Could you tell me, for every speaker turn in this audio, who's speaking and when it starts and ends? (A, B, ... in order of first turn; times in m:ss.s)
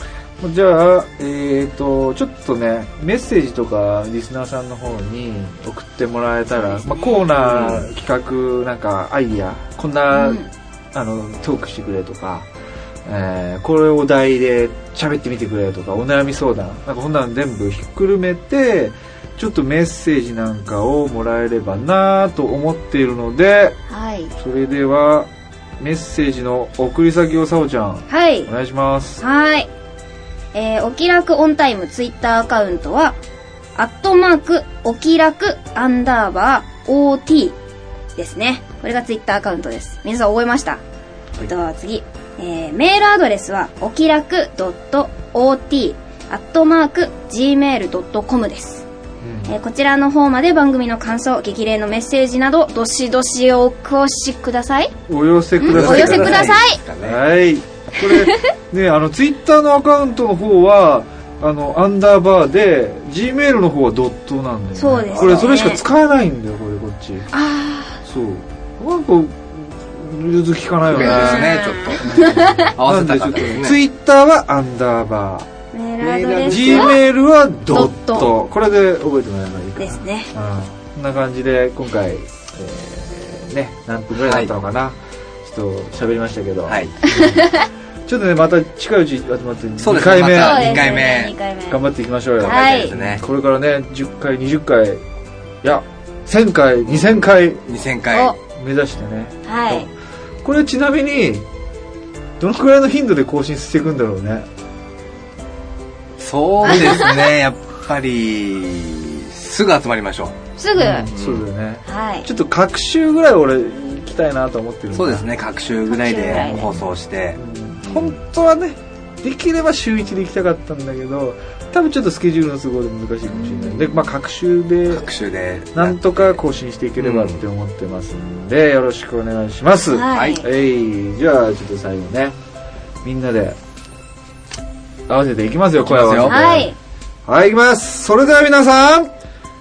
0:00.4-0:10.4 A
0:06.5-0:07.3 B
0:07.3-0:07.9 C
0:10.1-0:10.5 B
0:10.9-0:12.5 A
0:13.0-0:23.8 A
0:23.9-0:24.3 B
0:24.4-0:29.2 A
0:28.1-0:28.5 B
0:29.2-0:29.7 B
0:30.5-0:33.2 B
0:33.8-0:37.6 B
0:38.2-0:40.8 B
0:41.4-0:48.8 B
0:49.2-0:49.5 A
0:49.4-0:54.9 B
0:55.1-1:07.3 A
0:55.6-0:56.8 B
0:55.6-0:57.2 C
0:58.1-0:58.5 B
1:04.7-1:05.8 B
1:05.1-1:05.7 C
1:07.3-1:08.0 B
1:08.0-1:15.5 A
1:10.9-1:13.8 C
1:10.9-1:12.7 B
1:15.7-1:17.0 B
1:16.0-1:17.0 C
1:16.4-1:27.5 A
1:17.7-1:18.3 B
1:19.8-1:20.3 B
1:24.2-1:24.5 C
1:27.0-1:27.6 B
1:28.0-1:31.1 A
1:29.8-1:31.3 C
1:30.3-1:31.8 B
1:31.7-1:35.0 A
1:32.4-1:33.0 B
1:32.4-1:33.2 C
1:35.6-1:37.6 A
1:36.9-1:38.4 C
1:38.5-1:39.9 A
1:39.4-1:39.9 B
1:40.4-1:41.4 A
1:42.4-1:44.5 A
1:46.2-1:50.4 C
1:50.6-1:51.1 B
1:50.8-1:55.3 A
1:51.1-1:51.4 C
1:51.8-1:52.3 B
1:54.9-1:58.2 C
1:55.9-1:56.6 B
1:56.3-2:05.1 A
2:03.3-2:04.1 B
2:04.9-2:06.4 C
2:05.7-2:12.4 A
2:07.0-2:07.4 C
2:09.9-2:10.5 B
2:10.1-2:10.4 C
2:13.0-2:13.6 A
2:15.1-2:16.7 A
2:15.8-2:16.4 C
2:16.2-2:16.8 B
2:17.2-2:19.1 A